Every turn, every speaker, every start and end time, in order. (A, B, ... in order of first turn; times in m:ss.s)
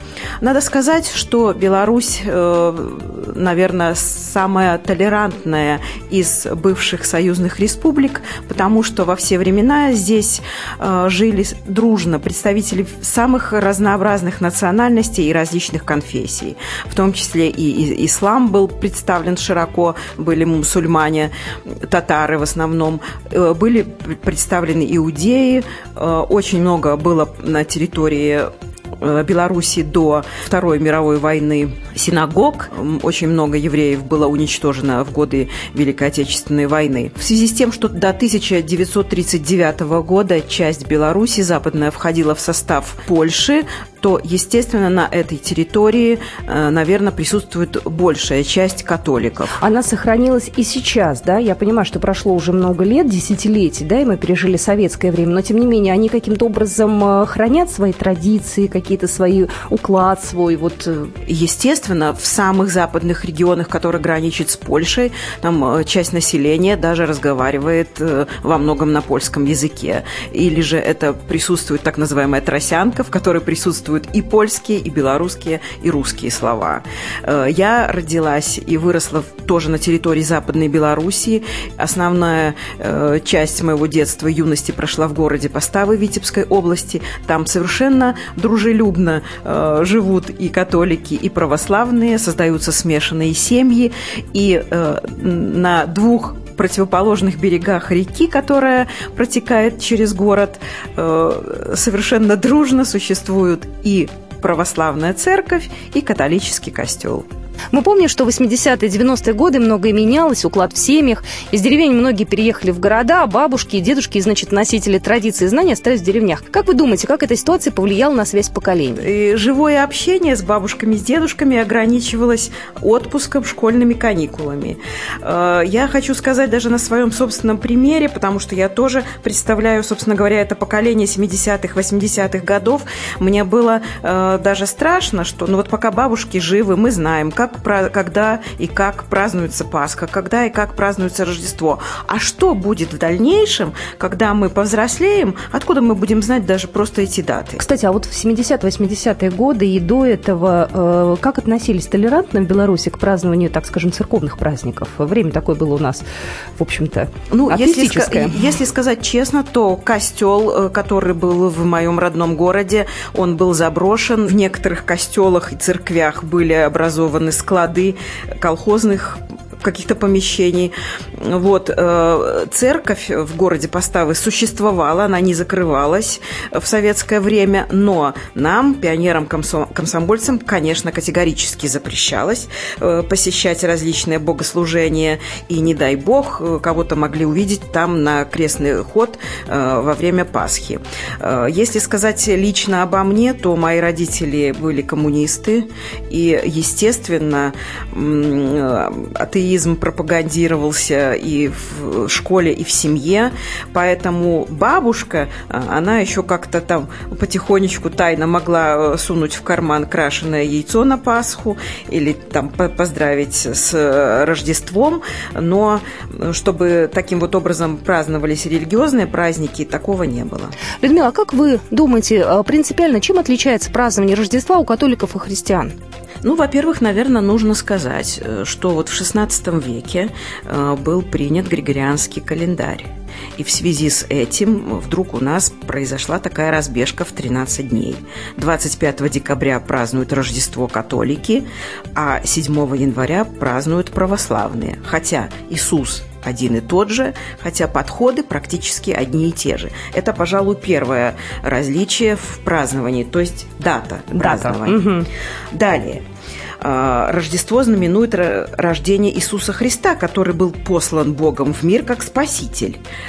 0:00.4-0:21.3 A
0:21.9-0:28.5 A
0:29.0-0:49.5 A
0:49.6-1:01.1 B
1:01.2-1:47.2 A
1:47.7-1:59.0 B
1:59.0-2:27.6 A
2:27.6-2:36.0 B
2:36.6-2:38.3 B
2:37.3-3:40.5 A
3:40.8-3:45.7 B
3:46.2-4:14.8 A
4:14.2-4:15.0 B
4:15.5-4:16.0 A
4:16.6-4:22.8 A